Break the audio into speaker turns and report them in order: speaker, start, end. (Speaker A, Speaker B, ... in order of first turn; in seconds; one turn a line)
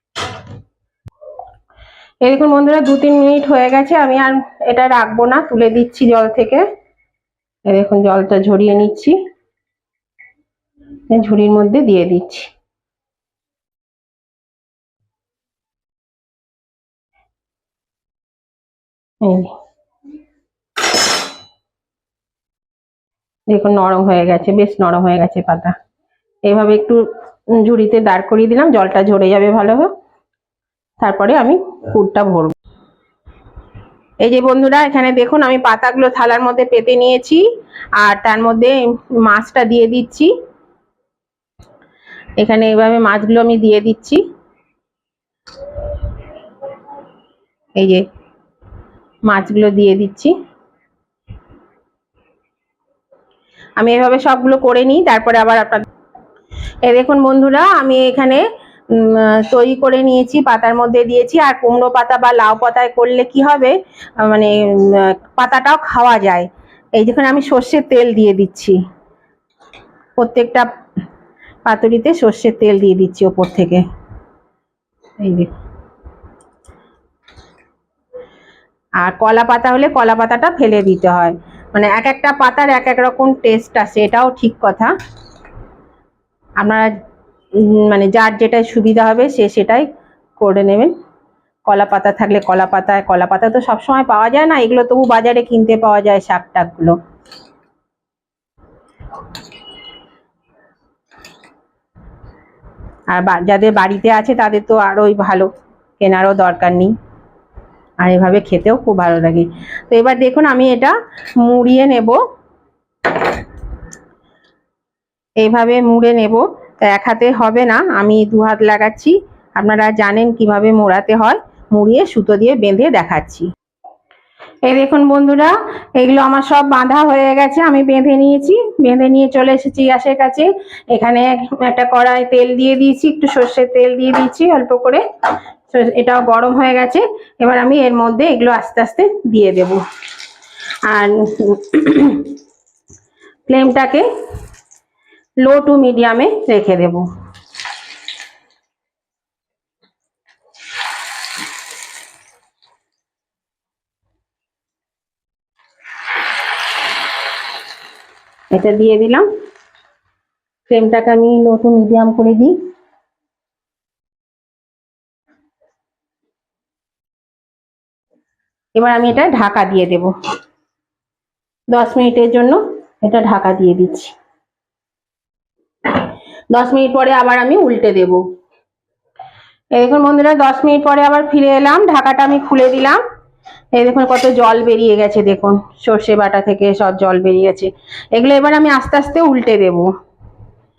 Speaker A: 2.2-6.7
Speaker A: 7.7-9.2
Speaker A: 11.1-12.5
Speaker A: 19.2-19.5
Speaker A: 23.5-25.8
Speaker A: 26.5-29.9
Speaker A: 31.0-32.5
Speaker A: 34.2-37.5
Speaker A: 38.0-40.3
Speaker A: 42.4-44.2
Speaker A: 47.8-48.0
Speaker A: 49.3-50.3
Speaker A: 53.8-55.9
Speaker A: 56.8-68.8
Speaker A: 70.2-70.7
Speaker A: 71.7-73.8
Speaker A: 75.2-75.5
Speaker A: 79.0-84.9
Speaker A: 86.6-86.9
Speaker A: 87.6-89.9
Speaker A: 90.4-90.9
Speaker A: 91.7-97.0
Speaker A: 103.1-105.5
Speaker A: 106.0-106.9
Speaker A: 108.0-112.2
Speaker A: 115.4-123.5
Speaker A: 124.7-135.0
Speaker A: 135.7-139.8
Speaker A: 140.9-142.3
Speaker A: 143.5-144.1
Speaker A: 145.4-147.1
Speaker A: 158.5-159.3
Speaker A: 160.7-162.6
Speaker A: 168.8-170.1
Speaker A: 171.7-174.1
Speaker A: 176.5-178.2
Speaker A: 179.8-183.0
Speaker A: 183.8-189.9